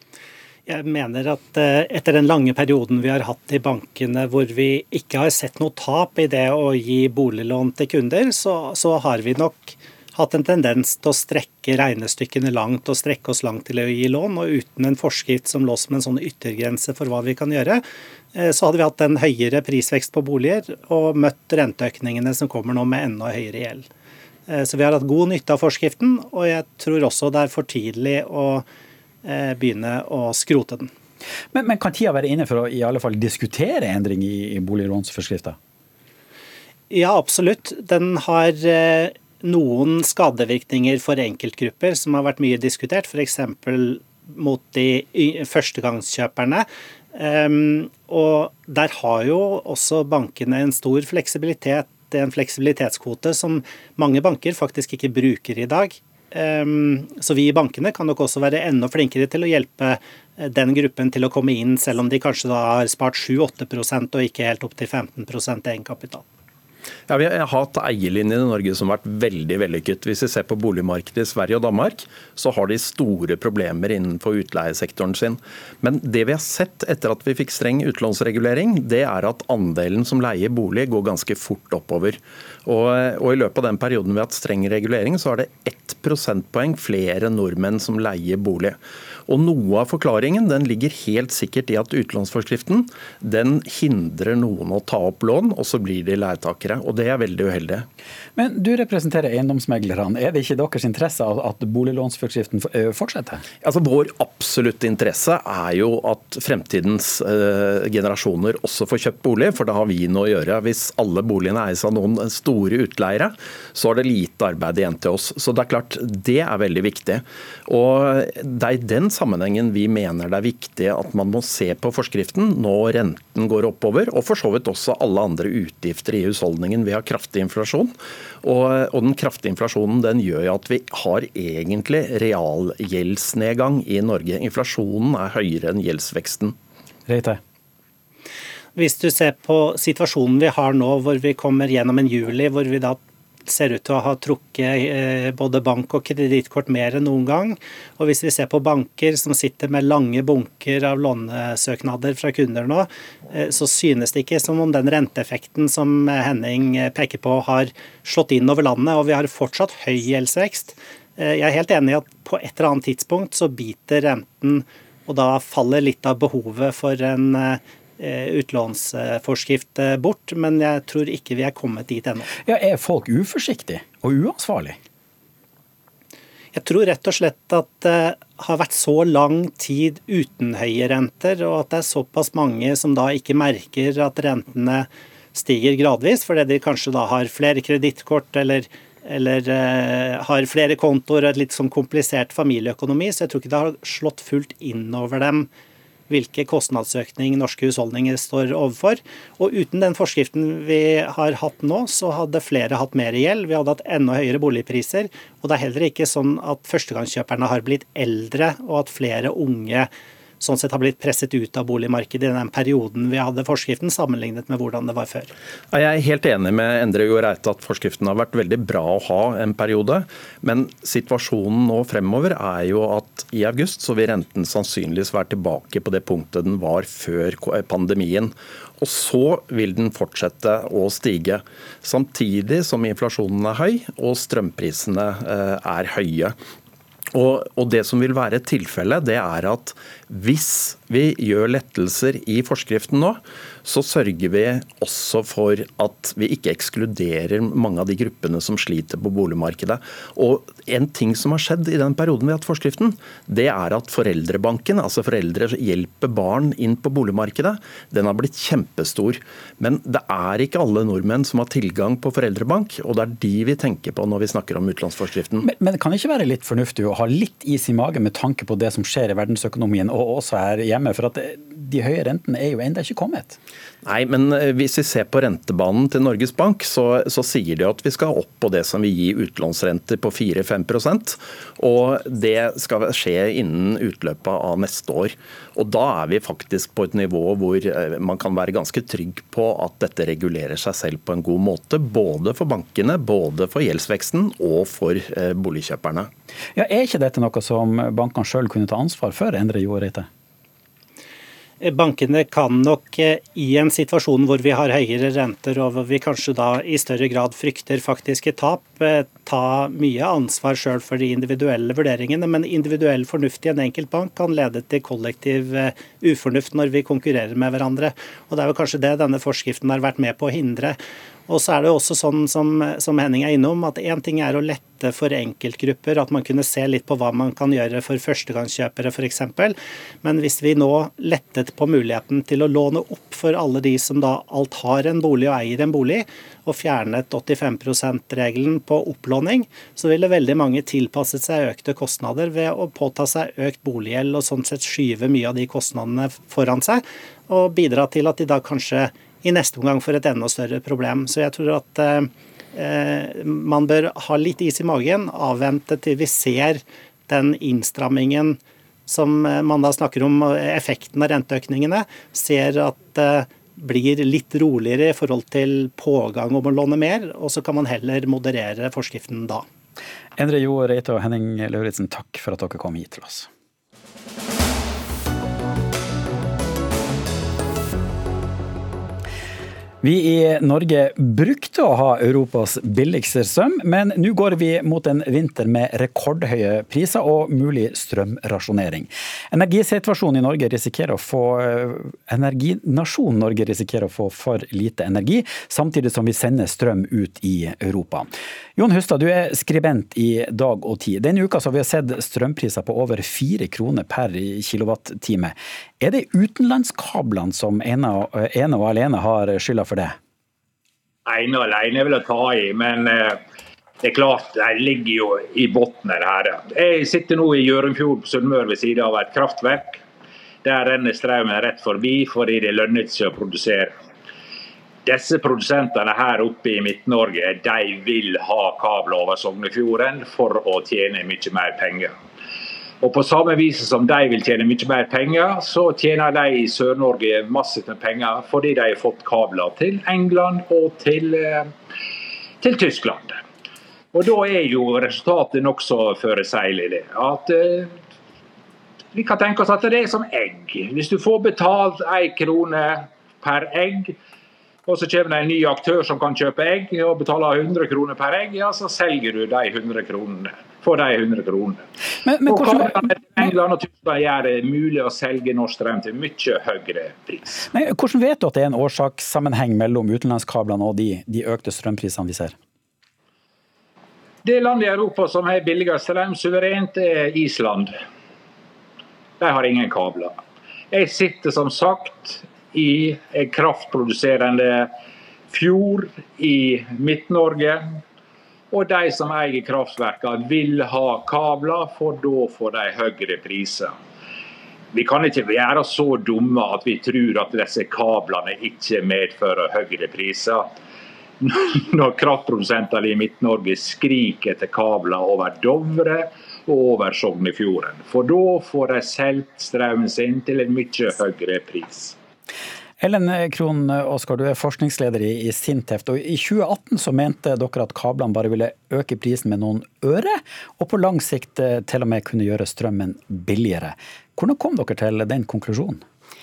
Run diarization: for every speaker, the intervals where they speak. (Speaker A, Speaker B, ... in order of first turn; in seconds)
Speaker A: 0.7-23.9, 24.5-28.7, 29.2-30.9, 36.9-66.3, 138.8-172.3, 176.5-195.5, 196.1-215.3, 301.6-369.4
Speaker B: 31.5-35.6, 98.4-103.4, 137.1-137.4, 172.4-174.8, 265.4-273.4, 296.5-300.1, 370.2-373.3, 379.8-410.0, 462.0-462.9, 467.5-472.4, 512.8-525.8
Speaker C: 67.1-97.9, 103.6-136.6, 215.7-236.4, 237.1-265.5, 273.8-296.1
Speaker D: 411.1-413.2, 413.8-419.8, 420.4-423.8, 424.9-431.9, 432.8-441.5, 442.4-443.2, 443.9-447.7, 448.9-454.0, 454.7-461.6, 462.3-467.4, 474.2-477.8, 479.2-480.2, 480.7-484.7, 485.3-487.8, 488.5-493.7, 494.7-500.5, 501.2-511.9